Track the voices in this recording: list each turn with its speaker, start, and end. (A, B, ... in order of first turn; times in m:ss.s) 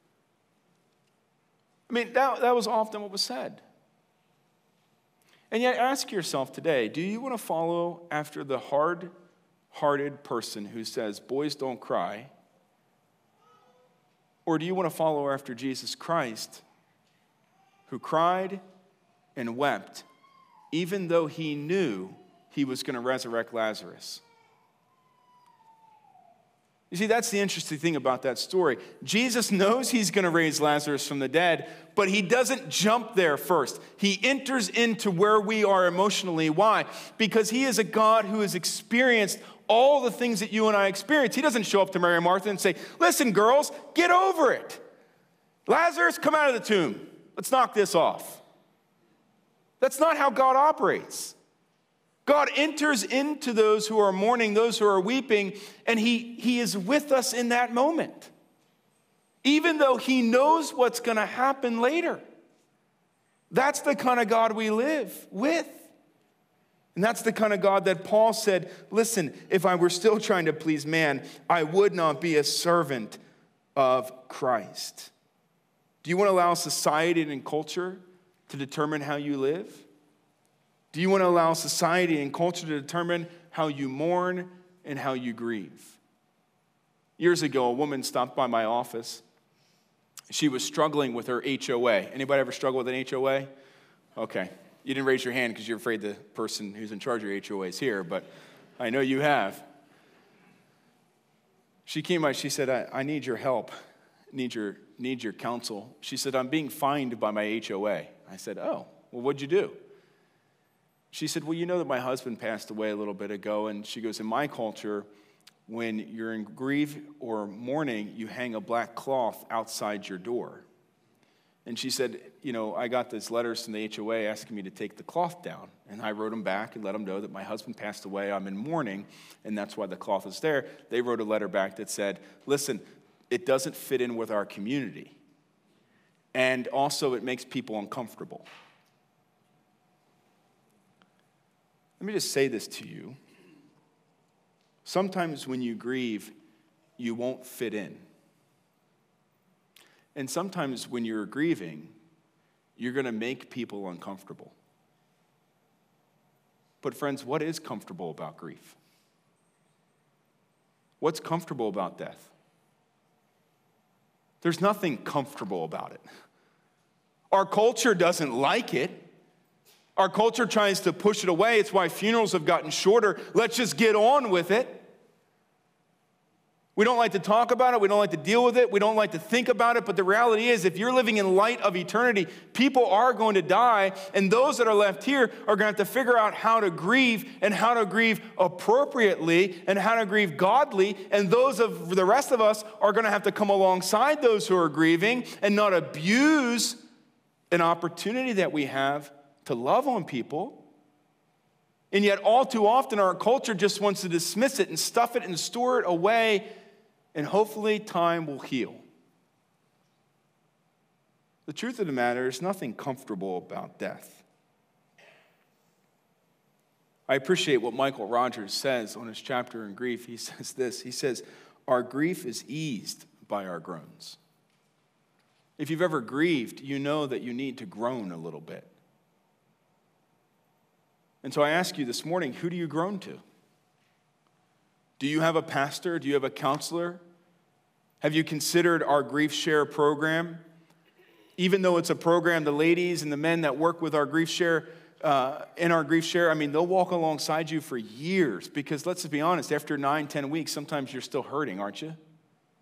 0:01.9-0:03.6 A
0:05.5-0:09.1 A
0:09.7-0:12.3 A
0:14.5-0:16.6 A
0:17.9-0:18.6 A
0:19.4-0:20.1 A
0:20.7-0:24.2 A
0:26.9-0:44.8 A
0:45.7-0:48.4 A
0:49.8-0:51.4 A
0:52.3-0:58.3 A
0:59.4-1:02.2 A
1:03.5-1:05.9 A
1:06.9-1:13.2 A
1:13.8-1:15.1 A
1:16.0-1:19.9 A
1:20.9-1:26.0 A
1:27.2-1:29.2 A
1:30.3-1:33.5 A
1:34.2-1:39.6 A
1:41.9-1:43.7 A
1:44.3-1:49.8 A
1:51.1-1:55.1 A
1:55.7-2:00.7 A
2:01.6-2:15.2 A
2:16.3-2:18.5 A
2:22.0-2:23.2 A
2:24.8-2:26.3 A
2:27.0-2:28.0 A
2:30.2-2:31.9 A
2:32.8-2:34.6 A
2:36.8-2:38.8 A
2:41.0-2:42.3 A
2:44.4-2:46.0 A
2:47.3-2:49.0 A
2:50.0-2:54.9 A
2:56.8-3:16.8 A
3:17.5-3:20.7 A
3:21.9-3:26.5 A
3:27.1-3:28.8 A
3:31.5-3:34.2 A
3:37.1-3:44.2 A
3:45.6-3:48.7 A
3:51.2-3:53.2 A
3:55.0-3:57.0 A
3:58.0-4:00.4 A
4:01.4-4:12.0 A